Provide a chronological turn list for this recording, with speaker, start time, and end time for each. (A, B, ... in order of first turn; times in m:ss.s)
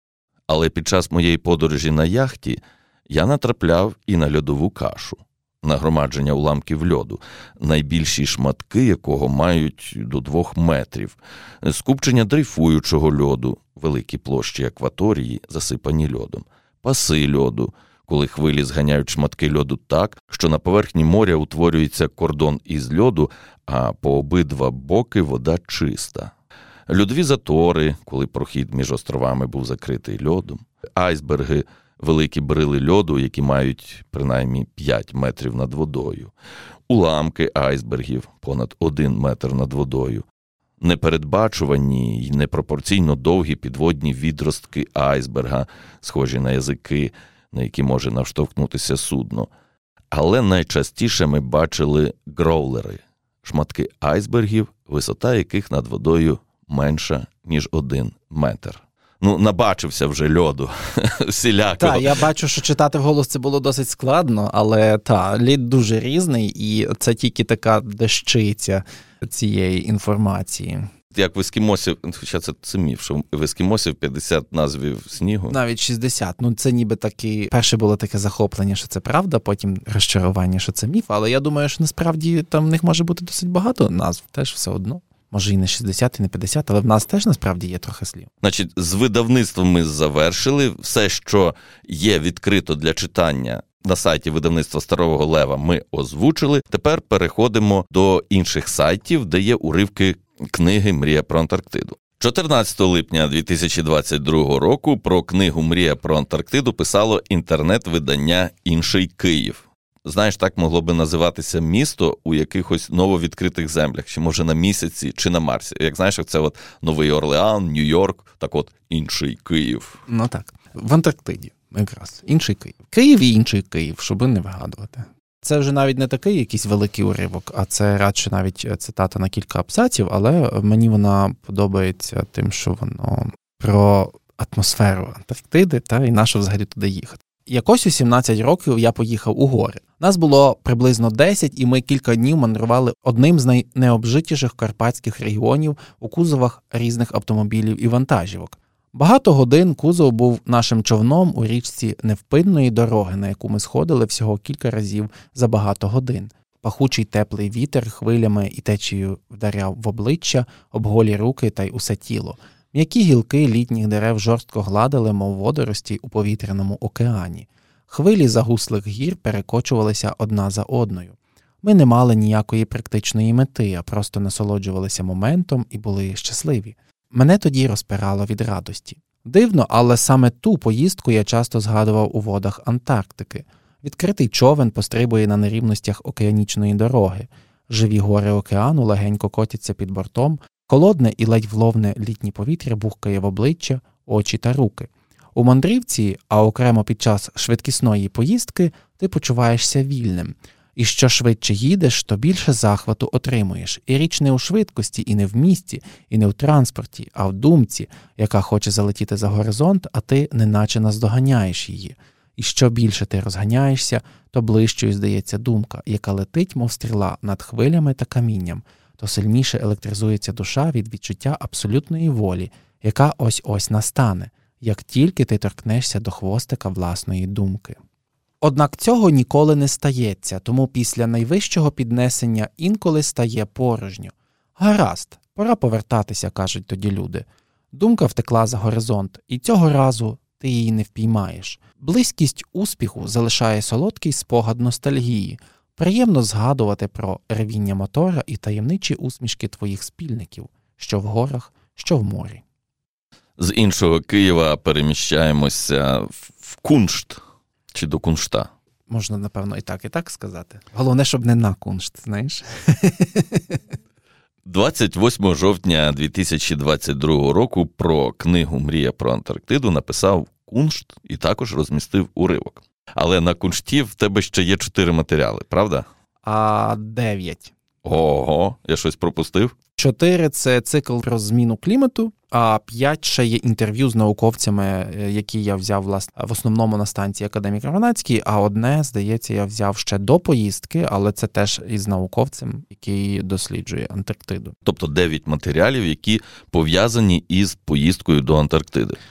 0:00.5-0:26.3 A
0:26.9-0:36.3 A
0:36.9-0:40.2 A
0:40.8-0:49.5 A
0:50.1-1:02.2 A
1:01.8-1:10.8 B
1:11.1-1:15.6 A
1:15.5-1:28.3 B
1:28.4-2:00.0 A
2:00.1-3:47.8 B
3:48.4-4:12.4 B
4:13.4-4:17.2 A
4:17.7-4:18.5 A
4:18.9-4:23.6 B
4:24.5-4:35.9 A
4:36.2-4:37.5 B
4:37.8-4:39.6 A
4:39.8-4:54.6 B
4:54.6-4:59.0 A